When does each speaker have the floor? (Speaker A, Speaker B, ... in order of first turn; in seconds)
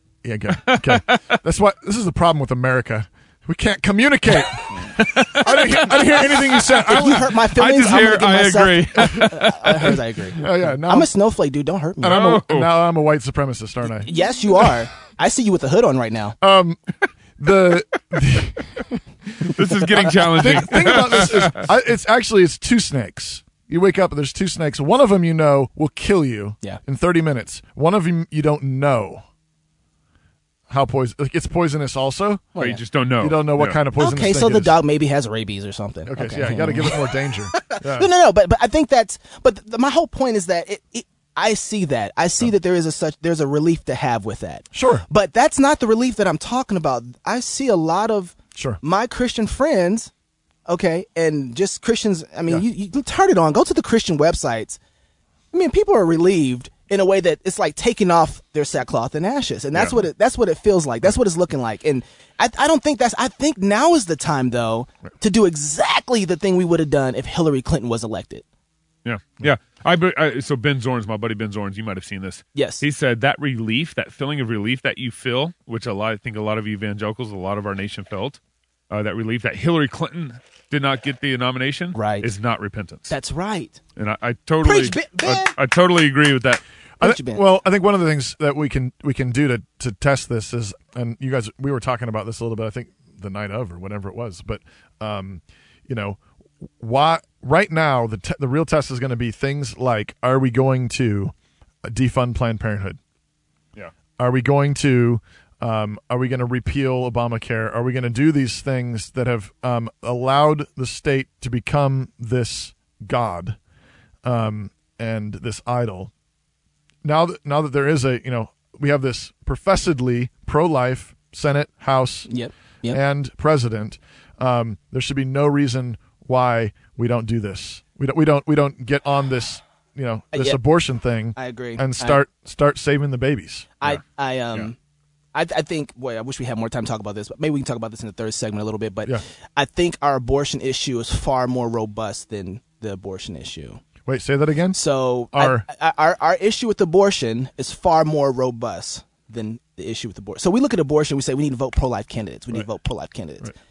Speaker A: 0.2-7.3, 9.0-9.2, 10.4-11.1, 12.0-14.1, 16.4-16.8, 17.4-19.0, 20.1-29.2, 30.7-32.5, 33.2-34.8, 36.1-38.1, 44.7-45.0, 48.5-48.8, 87.0-101.3, 101.8-103.0, 104.2-113.6, 114.2-116.1, 117.0-122.3, 122.9-133.8, 144.1-144.8, 145.3-145.7
Speaker B: 0.7-1.4, 5.0-10.0, 12.1-12.7, 19.4-21.6, 32.6-33.8, 69.0-78.4, 78.9-83.1, 84.0-86.6
Speaker C: 6.9-12.2, 13.9-16.4, 32.6-32.8, 34.0-37.1, 37.6-50.1, 50.7-54.8, 55.5-68.4, 72.5-72.8, 81.9-82.3, 83.1-83.8, 84.6-85.6, 87.0-87.4, 122.3-123.0, 130.3-130.6, 131.4-132.2, 133.8-134.8, 135.3-143.8, 144.7-153.5